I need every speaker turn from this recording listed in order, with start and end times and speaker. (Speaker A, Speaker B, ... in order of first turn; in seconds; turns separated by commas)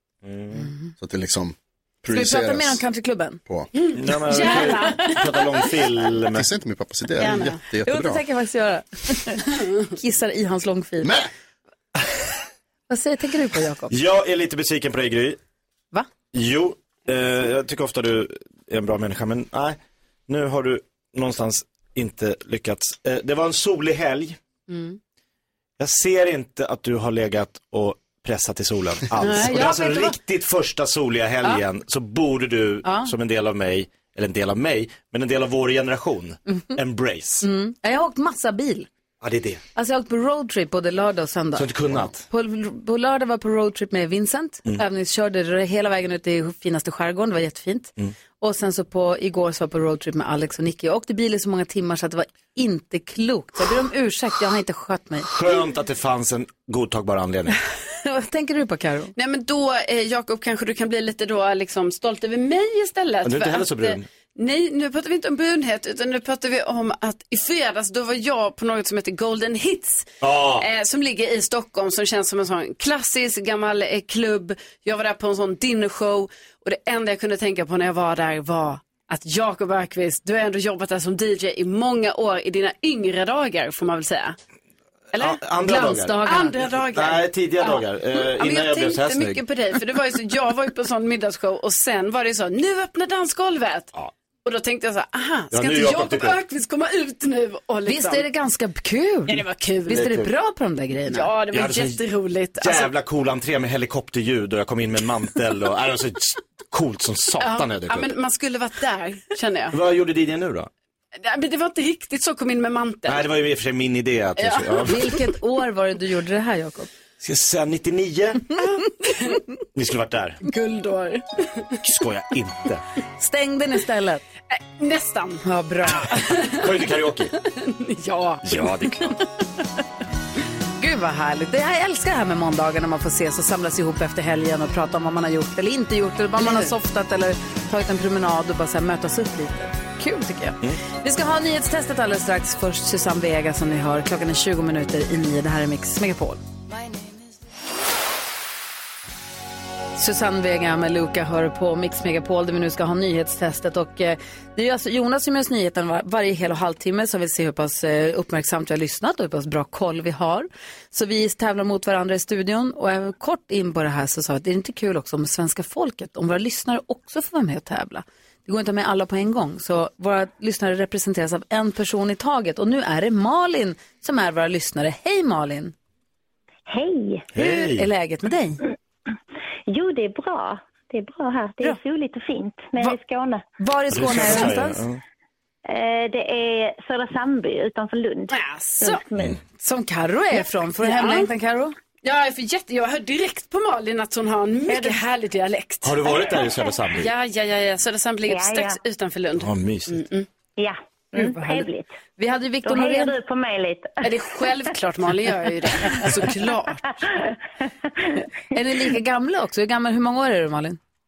Speaker A: 0.2-0.7, Speaker B: 0.5-0.9, Speaker C: 1.0-2.8, Speaker B: 2.1-3.4, Speaker D: 3.8-5.4, Speaker A: 3.9-6.5, Speaker B: 4.3-5.3, Speaker C: 6.3-8.2, Speaker D: 7.2-7.6, Speaker B: 7.8-11.1, Speaker C: 11.0-11.3, Speaker B: 12.9-13.9, Speaker A: 13.9-15.4, Speaker A: 16.3-24.4, Speaker B: 24.7-25.0, Speaker A: 25.8-37.4, Speaker B: 29.2-30.1, Speaker B: 32.8-33.1, Speaker B: 37.4-38.9, Speaker A: 39.2-39.6, Speaker B: 39.7-55.3, Speaker A: 41.5-42.2, Speaker A: 55.3-57.6, Speaker B: 57.9-59.1, Speaker D: 59.1-84.4, Speaker A: 63.2-64.0, Speaker A: 70.2-70.7, Speaker D: 85.1-85.4, Speaker A: 85.1-86.2, Speaker B: 85.6-86.7, Speaker D: 86.2-93.9, Speaker A: 86.9-89.4, Speaker D: 94.4-98.2, Speaker A: 95.5-96.3, Speaker B: 97.9-101.3, Speaker D: 99.3-100.1, Speaker A: 99.9-100.3, Speaker D: 101.1-102.9, Speaker A: 101.5-102.0, Speaker A: 102.6-108.1, Speaker D: 107.4-109.8, Speaker A: 109.7-110.7, Speaker D: 111.2-113.3, Speaker A: 113.1-115.2, Speaker D: 114.4-115.0, Speaker B: 114.8-116.9, Speaker A: 117.2-118.5, Speaker D: 118.6-119.4, Speaker A: 119.7-120.4, Speaker D: 120.4-121.8, Speaker A: 121.8-122.8, Speaker B: 123.2-124.2, Speaker D: 124.5-129.1, Speaker B: 125.4-126.2, Speaker A: 126.5-127.3, Speaker A: 128.4-129.1, Speaker B: 130.8-146.4, Speaker B: 150.0-175.7, Speaker E: 176.7-177.2, Speaker A: 177.3-177.9, Speaker B: 177.3-178.6, Speaker E: 179.7-183.4, Speaker B: 183.6-184.8, Speaker A: 183.9-185.0, Speaker E: 184.1-184.5, Speaker E: 185.7-189.4, Speaker D: 188.3-189.0, Speaker B: 189.6-191.8, Speaker D: 190.3-191.3, Speaker D: 192.0-196.3, Speaker A: 195.8-197.1, Speaker E: 196.2-196.8, Speaker D: 196.9-200.3, Speaker E: 198.3-198.8, Speaker A: 199.4-200.0, Speaker E: 200.6-202.0, Speaker B: 201.1-203.1, Speaker E: 202.6-204.7, Speaker D: 204.0-206.8, Speaker E: 205.8-206.3, Speaker E: 206.9-207.3, Speaker B: 208.5-210.8